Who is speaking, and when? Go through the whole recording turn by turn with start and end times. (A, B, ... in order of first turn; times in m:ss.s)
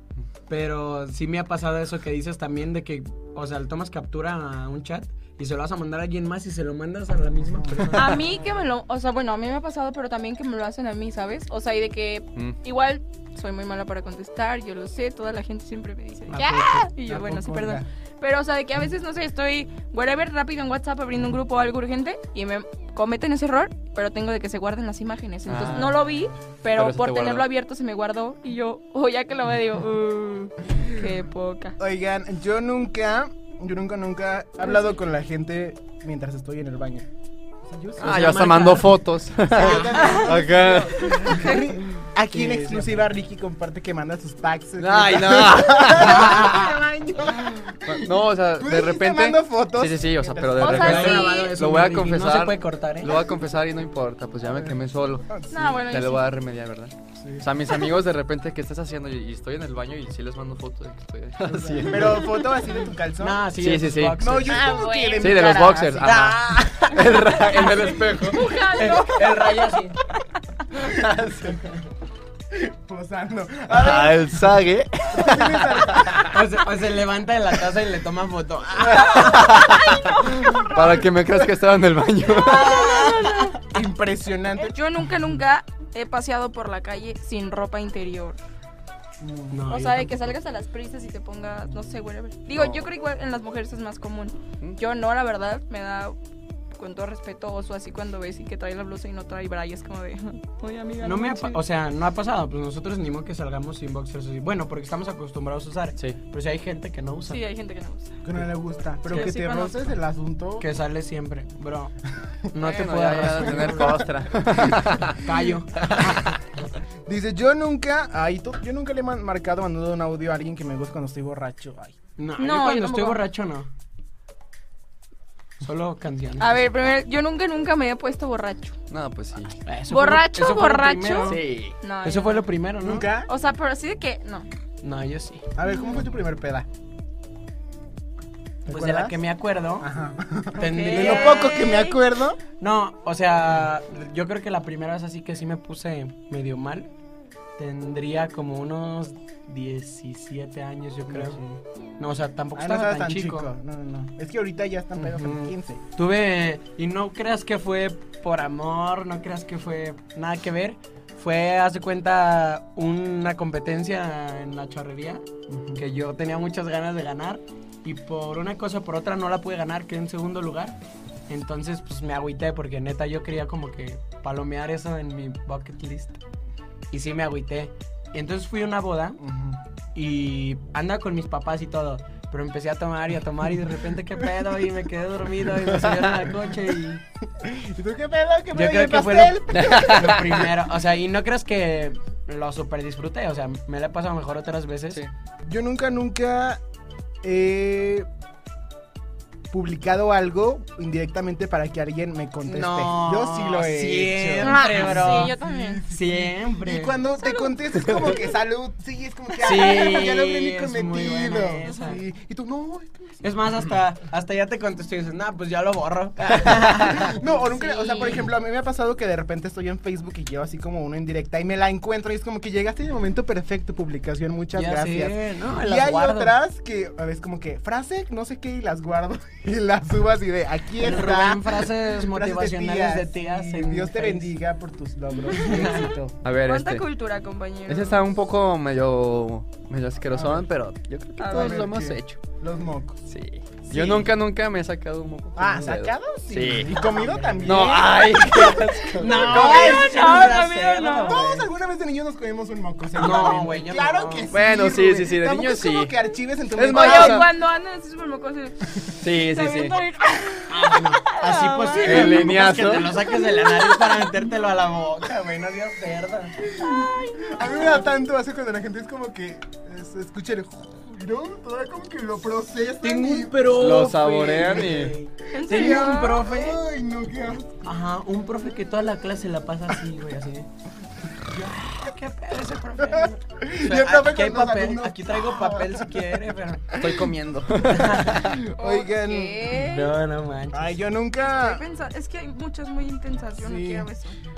0:00.5-0:08.3 A
0:07.6-0:07.9 B
0:07.9-0:31.8 C
0:16.3-0:17.8 B
0:25.5-0:26.1 D
0:26.7-0:27.5 D
0:31.8-0:37.1 B
0:37.6-0:38.4 B
0:38.0-0:38.9 A
0:38.0-0:41.5 D
0:39.5-0:51.0 B
0:39.6-0:40.2 A
0:40.0-0:40.3 C
0:42.2-0:43.1 A
0:44.8-0:46.7 D
0:47.8-1:02.5 D
0:50.6-0:51.6 C
0:50.6-0:53.2 A
0:55.3-0:55.8 B
0:55.5-0:56.2 C
0:57.2-0:57.5 B
1:01.5-1:03.5 B
1:01.6-1:02.2 A
1:03.2-1:04.7 A
1:03.6-1:04.2 D
1:04.2-1:07.0 B
1:04.5-1:05.7 C
1:05.2-1:08.6 D
1:06.0-1:06.9 A
1:07.5-1:09.8 C
1:08.7-1:10.0 A
1:10.8-1:11.7 D
1:12.5-1:14.5 B
1:13.7-1:16.2 D
1:15.1-1:16.3 B
1:16.3-1:19.5 A
1:18.9-1:23.0 D
1:22.3-1:23.6 C
1:23.0-1:23.5 A
1:23.7-1:24.8 B
1:24.7-1:28.4 C
1:29.2-1:29.6 B
1:29.5-1:30.4 A
1:29.7-1:36.2 C
1:32.5-1:32.9 D
1:36.8-1:41.6 C
1:41.0-1:47.4 A
1:47.3-1:48.2 C
1:48.2-1:50.7 B
1:49.0-1:49.8 C
1:49.1-1:49.3 A
1:50.6-1:52.0 A
1:52.5-1:54.0 A
1:52.6-1:56.3 D
1:53.2-1:54.1 B
1:55.2-1:56.3 A
1:57.1-2:02.0 B
2:02.2-2:03.7 A
2:02.4-2:03.3 C
2:05.6-2:06.6 A
2:06.4-2:08.8 C
2:08.9-2:09.6 D
2:09.6-2:11.4 A
2:09.9-2:12.5 C
2:11.2-2:11.8 D
2:12.0-2:13.1 A
2:12.8-2:13.3 B
2:13.3-2:14.5 C
2:14.8-2:15.5 A
2:15.6-2:16.7 B
2:15.6-2:16.0 C
2:18.6-2:19.2 B
2:18.7-2:19.9 A
2:19.8-2:22.4 B
2:20.6-2:22.0 C
2:20.6-2:21.6 A
2:22.6-2:26.9 A
2:27.6-2:31.4 A
2:31.1-2:31.6 B
2:32.0-2:33.5 A
2:32.6-2:35.8 B
2:35.0-2:45.2 A
2:45.5-2:45.8 B
2:45.8-2:50.8 A
2:51.3-2:56.2 A
2:56.9-2:59.2 A
2:59.2-2:59.6 B
3:00.0-3:07.0 A
3:05.7-3:06.2 D
3:07.4-3:10.4 B
3:08.5-3:15.0 A
3:09.6-3:10.3 D
3:15.5-3:16.6 B
3:17.2-3:18.1 B
3:19.5-3:33.3 B
3:22.4-3:25.4 A
3:24.4-3:25.8 C
3:25.9-3:27.0 A
3:27.2-3:27.5 C
3:27.8-3:28.1 D
3:29.4-3:32.0 A
3:33.2-3:37.2 A
3:36.5-3:56.2 B
3:37.5-3:38.3 C
3:44.5-3:46.4 A
3:50.8-3:54.3 A
3:55.3-3:55.9 A
3:56.2-3:56.8 D
3:56.5-3:58.0 C
3:57.7-4:02.2 D
4:00.1-4:00.5 B
4:01.2-4:01.7 C
4:01.3-4:03.0 B
4:03.1-4:06.7 D
4:03.7-4:04.1 B
4:05.4-4:08.2 B
4:06.5-4:07.7 A
4:07.4-4:09.5 D
4:09.0-4:11.5 A
4:09.0-4:10.3 B
4:09.4-4:11.2 C
4:11.0-4:17.3 B
4:13.0-4:14.3 A
4:14.3-4:15.9 D
4:16.6-4:17.3 D
4:16.7-4:22.3 C
4:19.0-4:19.8 D
4:20.5-4:26.4 A
4:21.8-4:23.0 D
4:23.0-4:24.1 C
4:26.4-4:33.4 B
4:32.8-4:36.6 A
4:33.5-4:35.0 D
4:35.3-4:36.5 C
4:35.5-4:37.7 B
4:37.6-4:40.5 A
4:41.3-4:41.8 B
4:41.6-4:46.8 A
4:42.9-4:46.2 B
4:46.8-4:48.4 D
4:47.7-4:48.2 A
4:48.0-4:49.6 B
4:48.6-4:50.0 C
4:49.5-4:50.8 A
4:50.5-4:51.6 B
4:51.3-4:54.2 C
4:53.4-4:53.9 B